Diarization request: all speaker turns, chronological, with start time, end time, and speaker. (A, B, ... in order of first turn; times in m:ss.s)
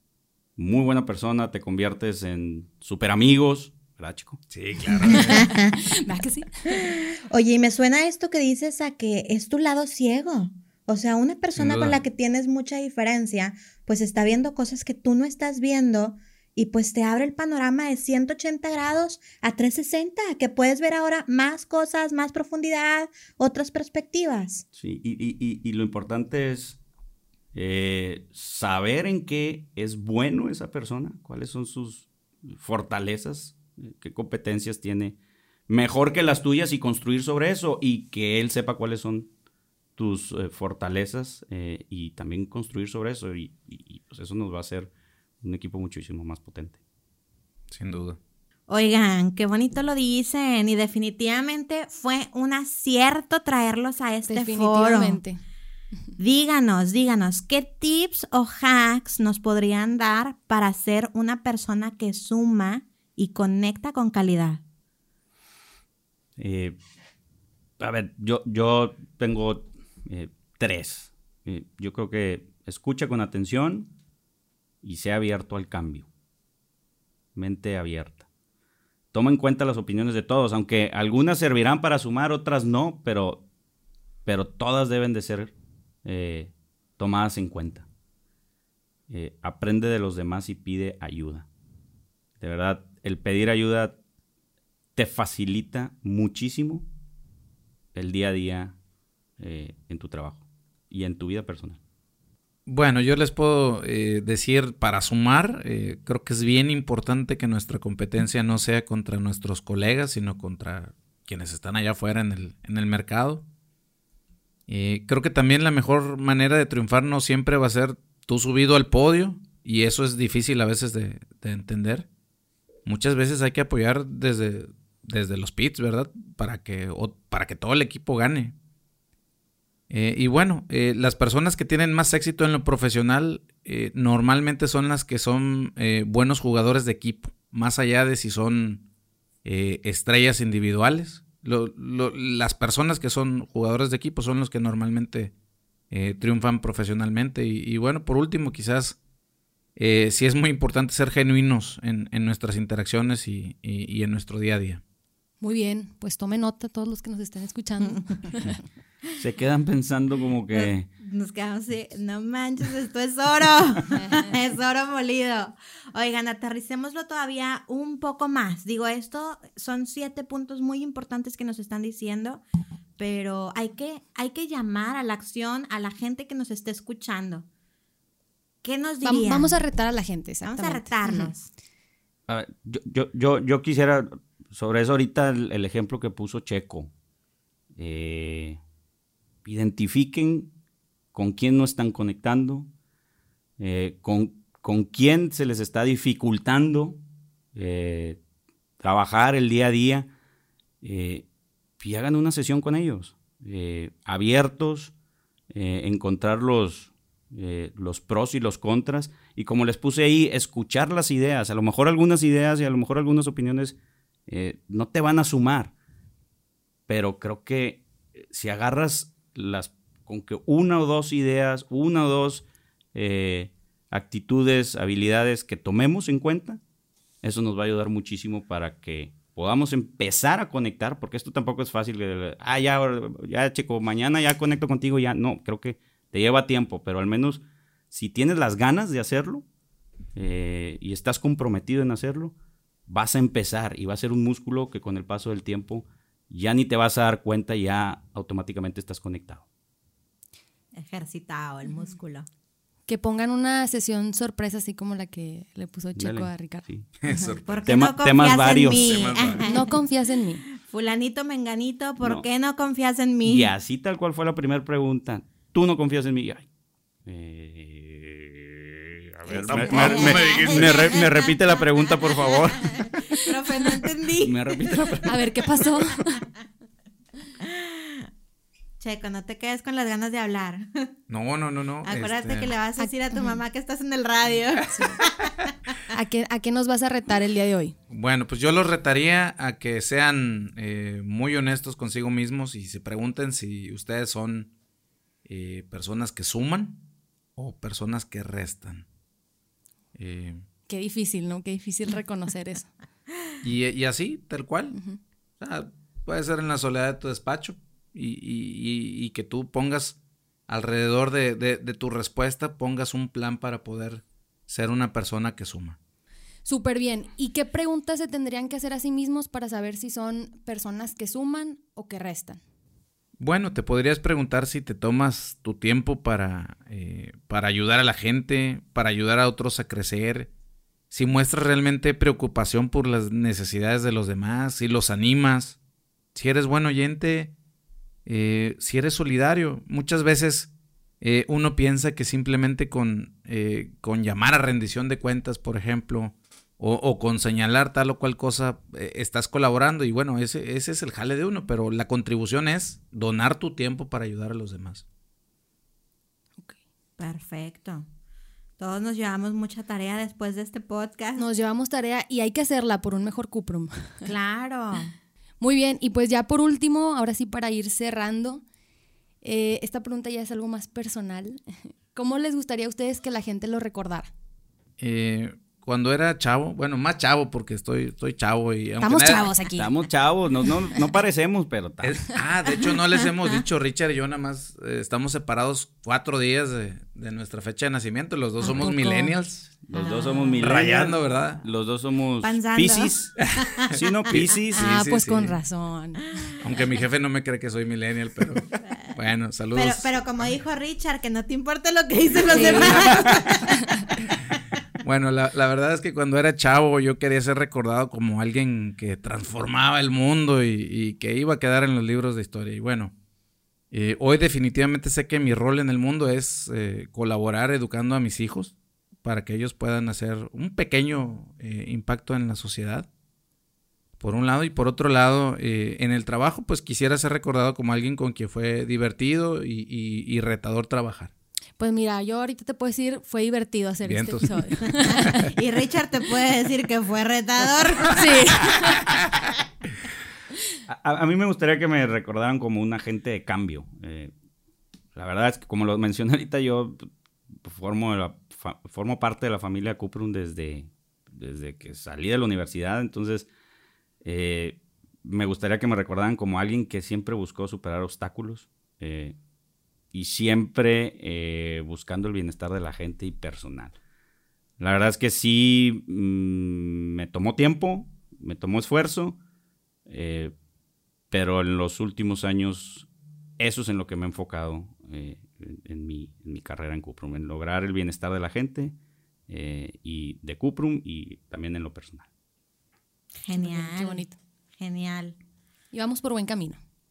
0:00.6-0:04.4 A
0:04.5-0:05.5 B
0:05.1-0:06.8 C
0:05.4-0:05.8 D
0:06.7-0:24.6 D
0:11.6-0:12.0 B
0:24.7-0:26.8 A
0:27.5-0:35.2 A
0:35.7-0:39.3 A
0:40.0-0:44.9 A
0:45.4-0:46.8 A
0:47.7-0:48.2 B
0:48.7-0:55.2 D
0:54.3-0:55.4 C
0:56.2-1:04.6 D
1:06.4-1:06.8 A
1:07.8-1:13.9 A
1:14.8-1:16.1 A
1:17.4-1:18.2 A
1:19.1-1:23.4 A
1:24.3-1:25.5 A
1:26.0-1:27.9 A
1:29.1-1:31.5 A
1:32.4-1:34.0 A
1:35.0-1:36.9 A
1:37.9-1:38.8 A
1:39.4-1:41.8 A
1:42.7-1:53.4 B
1:54.7-2:02.1 B
2:02.9-2:08.6 B
2:09.9-2:18.8 B
2:19.4-2:25.3 B
2:25.9-2:29.0 B
2:29.8-2:34.8 B
2:35.4-2:38.6 C
2:39.2-2:40.9 A
2:40.5-2:52.4 D
2:44.0-2:44.3 C
2:53.0-2:57.5 D
2:58.6-2:59.6 D
2:59.0-3:01.3 C
3:00.4-3:01.5 D
3:02.3-3:06.9 A
3:07.8-3:08.6 A
3:09.4-3:10.5 A
3:11.1-3:12.7 A
3:13.6-3:17.0 A
3:17.5-3:18.2 A
3:18.8-3:20.1 A
3:20.8-3:21.3 A
3:21.8-3:24.9 A
3:25.5-3:35.7 A
3:36.9-3:46.6 A
3:47.2-3:59.4 A
4:00.2-4:02.3 A
4:02.9-4:09.4 A
4:10.7-4:12.3 D
4:12.9-4:17.3 C
4:16.0-4:16.9 A
4:17.0-4:17.7 B
4:17.5-4:19.8 D
4:17.6-4:19.2 A
4:18.7-4:19.4 B
4:19.5-4:20.4 C
4:20.6-4:23.5 D
4:23.2-4:26.5 A
4:27.0-4:33.2 A
4:29.4-4:34.5 D
4:29.5-4:31.0 B
4:34.2-4:35.3 A
4:35.0-4:36.3 C
4:37.4-4:38.1 D
4:38.8-4:40.9 D
4:41.1-4:42.5 B
4:41.8-4:45.5 D
4:42.8-4:43.4 C
4:44.7-4:45.0 C
4:45.9-4:47.8 C
4:47.9-4:54.5 B
4:55.3-4:56.8 B
4:57.4-4:58.9 B
5:00.0-5:00.4 B
5:00.7-5:02.7 C
5:03.4-5:04.8 B
5:04.7-5:05.0 C
5:05.4-5:10.0 B
5:10.5-5:15.8 B
5:16.4-5:22.4 C
5:23.2-5:30.3 B
5:30.9-5:35.6 B
5:36.2-5:37.3 B
5:38.1-5:54.8 B
5:57.0-5:57.9 D
5:58.6-6:01.2 D
6:01.2-6:04.1 C
6:04.0-6:04.9 D
6:05.4-6:08.4 C
6:09.2-6:14.1 C
6:14.8-6:19.3 B
6:18.8-6:19.8 C
6:19.6-6:22.1 A
6:21.8-6:29.5 B
6:28.4-6:29.2 C
6:29.6-6:34.7 A
6:29.7-6:30.6 D
6:30.4-6:31.4 B
6:32.2-6:33.9 D
6:33.2-6:35.4 B
6:34.6-6:36.3 C
6:36.4-6:39.9 B
6:38.6-6:39.0 D
6:39.5-6:43.6 D
6:42.3-6:43.9 C
6:42.6-6:43.3 B
6:44.8-6:52.9 B
6:53.7-7:02.9 B
7:04.0-7:11.1 B
7:11.6-7:15.3 C
7:13.8-7:15.3 B
7:15.3-7:18.3 D
7:17.9-7:19.0 C
7:20.7-7:24.1 A
7:25.0-7:33.3 A
7:34.0-7:39.2 A
7:39.9-7:43.8 A
7:44.6-7:49.2 A
7:49.9-7:50.3 A
7:51.1-7:52.9 A
7:53.4-7:58.8 A
7:59.3-8:02.1 A
8:03.2-8:04.0 D
8:03.3-8:04.2 C
8:04.6-8:05.2 D
8:05.7-8:06.6 C